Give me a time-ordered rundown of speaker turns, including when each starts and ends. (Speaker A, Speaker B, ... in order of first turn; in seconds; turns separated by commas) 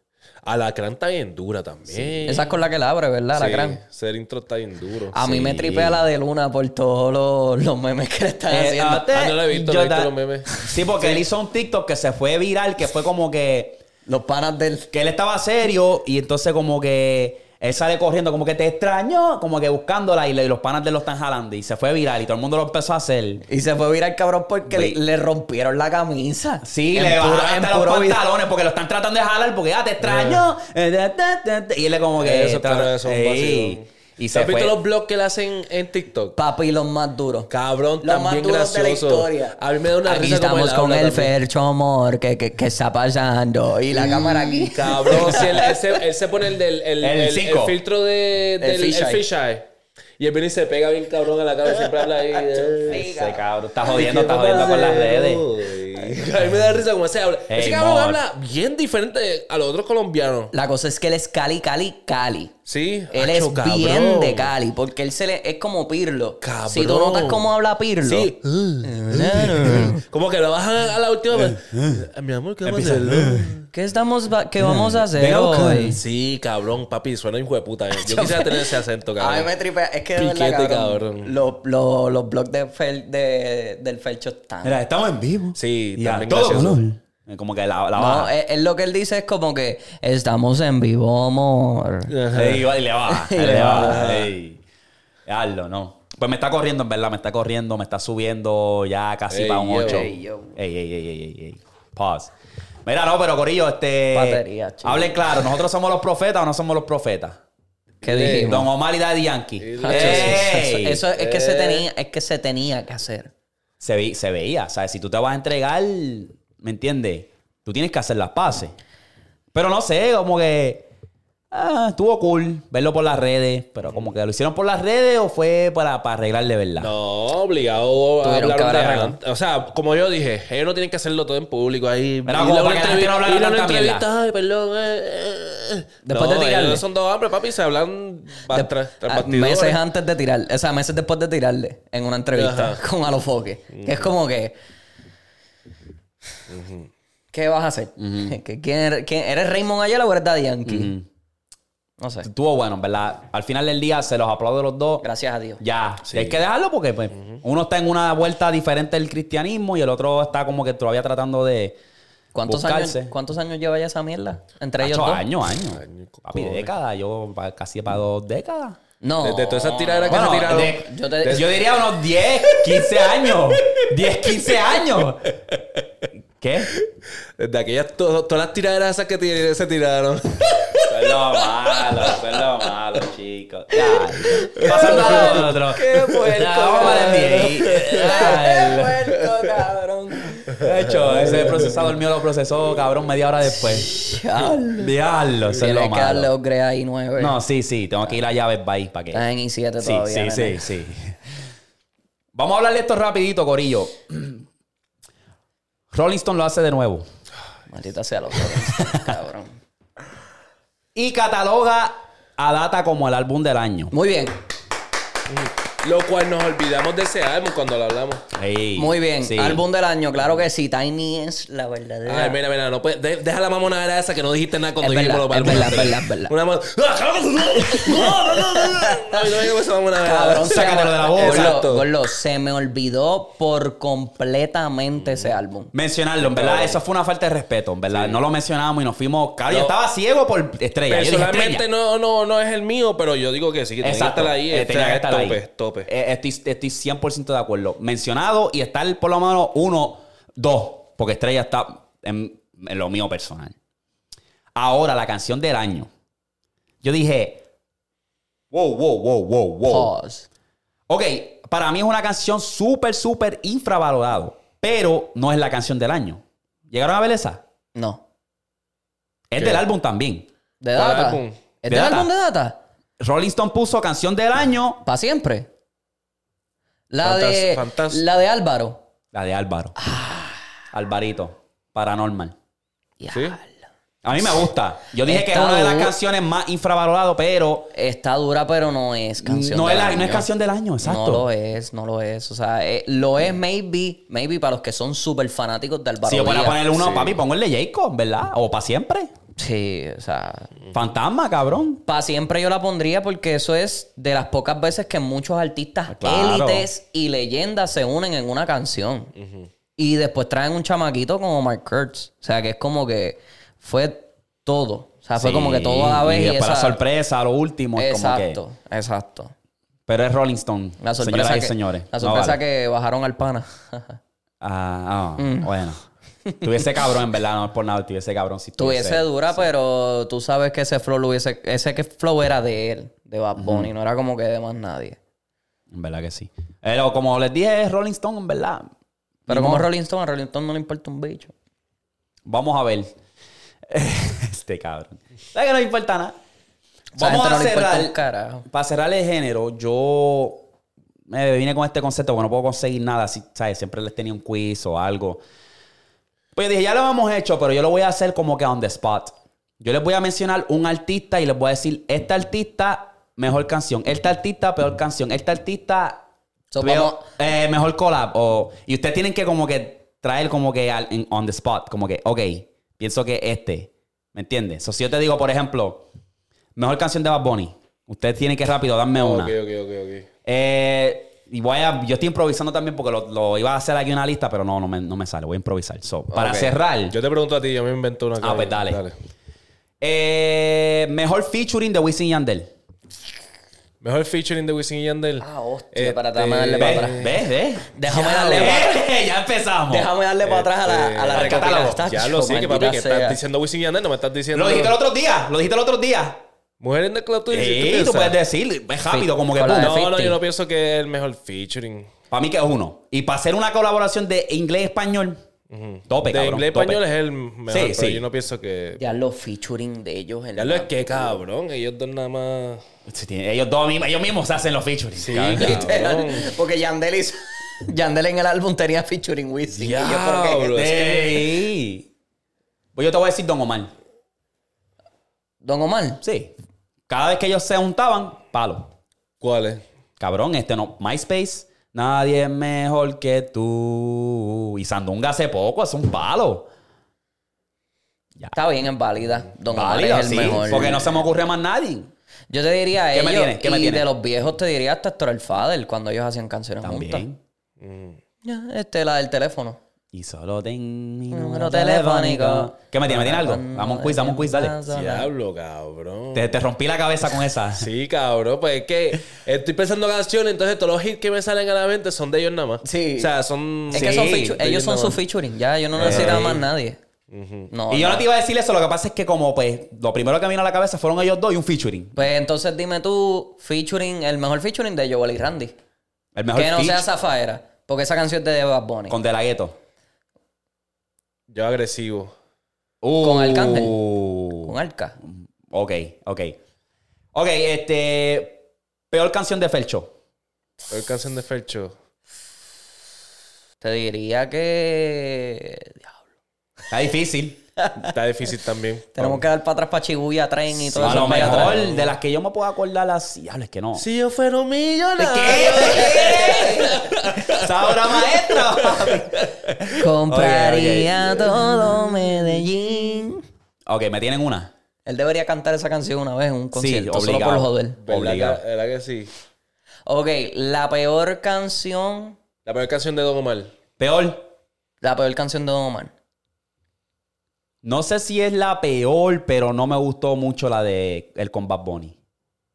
Speaker A: 0.5-2.5, Speaker B: 1.9-2.3, Speaker C: 2.3-3.8, Speaker A: 3.3-5.2, Speaker C: 5.1-9.1, Speaker B: 5.2-6.0, Speaker B: 8.5-13.8, Speaker A: 9.1-11.2, Speaker C: 14.1-14.9, Speaker B: 14.9-23.4, Speaker C: 23.5-28.2, Speaker B: 24.7-25.0, Speaker B: 26.6-34.8, Speaker A: 30.0-30.5, Speaker A: 32.2-36.4, Speaker C: 36.4-37.5, Speaker A: 37.5-41.3, Speaker C: 38.0-45.7, Speaker A: 44.0-49.6, Speaker B: 47.0-47.8, Speaker C: 48.6-49.2, Speaker A: 50.2-53.0, Speaker C: 52.5-53.4, Speaker B: 52.9-55.5, Speaker A: 53.9-60.5, Speaker B: 57.5-58.2, Speaker C: 60.5-62.5, Speaker A: 62.7-64.5, Speaker C: 63.1-68.3, Speaker A: 66.4-67.5, Speaker A: 68.0-73.7, Speaker C: 68.8-70.0, Speaker B: 71.3-72.0, Speaker B: 72.7-73.5, Speaker C: 73.7-76.0, Speaker B: 74.6-76.0, Speaker A: 76.0-79.5, Speaker C: 78.0-84.8, Speaker A: 80.2-81.3, Speaker B: 84.6-88.3, Speaker A: 85.6-86.8, Speaker C: 88.0-92.1, Speaker A: 92.1-92.7, Speaker B: 92.3-94.6, Speaker C: 93.1-94.0, Speaker A: 93.5-94.3, Speaker B: 95.3-102.3, Speaker A: 99.3-100.1, Speaker C: 99.8-100.6, Speaker B: 102.8-107.4, Speaker C: 104.1-105.2, Speaker A: 108.0-108.6, Speaker C: 108.0-108.7, Speaker B: 108.4-111.0, Speaker A: 109.6-110.6, Speaker C: 109.8-113.3, Speaker A: 111.1-111.9, Speaker B: 113.8-118.7, Speaker B: 119.5-120.9, Speaker B: 121.5-126.9, Speaker A: 126.8-139.8, Speaker C: 128.2-129.2, Speaker B: 132.2-134.1, Speaker C: 136.1-136.8, Speaker C: 138.5-144.6, Speaker A: 142.3-142.8, Speaker A: 143.7-144.1, Speaker A: 146.5-146.9, Speaker C: 147.3-150.9, Speaker B: 148.0-148.4, Speaker B: 150.7-151.1, Speaker C: 152.0-152.3, Speaker B: 152.2-155.1, Speaker C: 155.0-155.6, Speaker B: 155.6-161.8, Speaker A: 156.1-156.4, Speaker A: 157.1-157.4, Speaker C: 162.3-165.2, Speaker B: 162.4-163.1, Speaker B: 164.8-168.8, Speaker A: 165.7-166.7, Speaker C: 169.0-171.6, Speaker A: 169.2-171.7, Speaker B: 170.1-175.3, Speaker B: 176.4-176.7, Speaker A: 177.4-182.4, Speaker B: 180.9-189.1, Speaker C: 184.3-190.5, Speaker A: 184.6-188.4, Speaker B: 190.5-193.9, Speaker A: 190.6-191.6, Speaker C: 193.8-194.9, Speaker B: 194.6-196.3, Speaker C: 195.5-197.4, Speaker B: 197.2-199.2, Speaker C: 199.1-200.6, Speaker B: 199.8-201.2, Speaker B: 202.3-204.4, Speaker B: 205.9-207.1, Speaker C: 207.7-209.6, Speaker B: 208.8-209.1, Speaker B: 210.9-213.9, Speaker C: 213.9-214.4, Speaker A: 215.3-218.2, Speaker B: 218.3-219.6, Speaker C: 218.8-222.4, Speaker A: 222.1-231.9, Speaker C: 224.8-226.3, Speaker C: 227.6-229.3, Speaker C: 230.0-235.7, Speaker B: 230.4-231.6, Speaker A: 235.0-235.3, Speaker B: 235.7-241.7, Speaker A: 236.2-236.8, Speaker A: 237.9-238.2, Speaker A: 239.5-239.7, Speaker A: 240.9-245.9, Speaker B: 243.8-253.6, Speaker B: 254.6-255.9, Speaker B: 256.8-257.4, Speaker B: 258.5-259.9, Speaker C: 259.7-260.3, Speaker B: 260.9-267.4, Speaker C: 267.8-268.0, Speaker B: 269.3-270.3, Speaker A: 269.4-269.6, Speaker C: 270.6-272.6, Speaker A: 270.8-271.4, Speaker B: 271.7-272.1, Speaker B: 273.0-274.8, Speaker C: 274.8-275.5, Speaker C: 276.9-278.8, Speaker A: 277.0-278.0, Speaker B: 279.1-279.8, Speaker C: 279.8-280.4, Speaker B: 280.7-282.4, Speaker C: 283.0-283.5, Speaker A: 283.1-283.4, Speaker B: 284.0-287.7, Speaker C: 285.0-285.9, Speaker C: 287.7-290.3, Speaker B: 289.2-291.3, Speaker C: 290.8-296.8, Speaker B: 296.0-299.1, Speaker A: 296.8-297.2, Speaker C: 299.4-300.6, Speaker B: 300.7-301.8, Speaker C: 301.9-309.1, Speaker B: 305.9-306.7, Speaker A: 309.1-309.5, Speaker C: 309.8-316.8, Speaker B: 315.2-318.4, Speaker C: 317.8-319.3, Speaker B: 319.9-322.4, Speaker C: 320.8-324.0, Speaker B: 324.4-325.8, Speaker C: 325.2-325.5, Speaker C: 326.3-326.7, Speaker B: 326.4-329.4, Speaker C: 328.6-335.0, Speaker B: 333.4-333.7, Speaker B: 335.7-338.7, Speaker B: 339.3-339.7, Speaker C: 339.3-341.3, Speaker B: 342.3-342.9, Speaker B: 343.7-346.2, Speaker C: 347.0-348.5, Speaker B: 347.0-348.0, Speaker B: 348.5-350.5, Speaker B: 351.1-355.2, Speaker B: 356.4-366.0, Speaker C: 366.5-367.1, Speaker B: 366.6-375.9, Speaker B: 376.6-379.4, Speaker A: 378.9-380.1, Speaker B: 380.2-387.0, Speaker A: 386.1-388.9, Speaker B: 388.2-388.8, Speaker B: 389.8-392.5, Speaker A: 393.8-397.2, Speaker C: 395.2-397.0, Speaker B: 396.6-399.9, Speaker C: 397.8-398.8, Speaker A: 398.0-398.6, Speaker C: 399.7-403.2, Speaker A: 400.2-404.8, Speaker B: 401.1-401.8, Speaker B: 404.3-406.2, Speaker A: 406.6-408.2, Speaker B: 407.3-409.8, Speaker C: 408.9-410.2, Speaker A: 409.6-411.9, Speaker B: 412.1-415.2, Speaker A: 415.5-418.8, Speaker B: 415.9-416.8, Speaker B: 417.5-418.0, Speaker C: 418.8-421.2, Speaker A: 420.4-422.6, Speaker B: 422.9-425.9, Speaker A: 425.0-426.3, Speaker C: 425.3-430.5, Speaker A: 429.5-431.3, Speaker B: 430.5-431.9, Speaker B: 432.8-433.7, Speaker C: 435.4-436.0, Speaker B: 436.0-436.3, Speaker B: 436.9-438.7, Speaker A: 439.2-439.6, Speaker B: 440.0-446.5, Speaker C: 448.3-451.0, Speaker B: 449.5-451.9, Speaker C: 452.3-457.1, Speaker B: 452.9-453.9, Speaker B: 456.6-457.2, Speaker A: 457.6-458.0, Speaker C: 458.2-459.6, Speaker B: 459.9-464.6, Speaker C: 461.1-465.1, Speaker A: 464.7-466.4, Speaker B: 466.1-467.7, Speaker A: 467.6-475.0, Speaker C: 472.6-473.1, Speaker C: 473.7-476.8, Speaker B: 473.7-474.4, Speaker A: 475.8-476.4, Speaker B: 475.8-476.4, Speaker A: 477.1-477.5, Speaker C: 477.5-478.1, Speaker B: 477.7-482.0, Speaker C: 482.0-485.6, Speaker B: 486.1-486.9, Speaker C: 486.3-489.0, Speaker B: 488.9-489.6, Speaker A: 491.3-492.1, Speaker B: 492.8-494.5, Speaker C: 493.0-493.8, Speaker C: 494.4-495.0, Speaker B: 495.1-496.4, Speaker B: 497.1-499.9, Speaker A: 500.7-501.7, Speaker C: 503.6-506.0, Speaker B: 506.7-507.4, Speaker C: 507.6-507.9, Speaker A: 507.8-509.2, Speaker C: 508.9-511.7, Speaker A: 510.7-511.9, Speaker B: 510.7-513.9, Speaker A: 513.8-519.3, Speaker B: 515.0-521.3, Speaker C: 515.9-516.8, Speaker C: 519.8-523.2, Speaker B: 523.7-524.5, Speaker C: 524.9-527.8, Speaker B: 526.5-528.4, Speaker A: 527.8-529.1, Speaker C: 529.9-532.2, Speaker A: 532.5-533.5, Speaker B: 533.8-534.3, Speaker C: 534.8-535.9, Speaker B: 537.6-542.0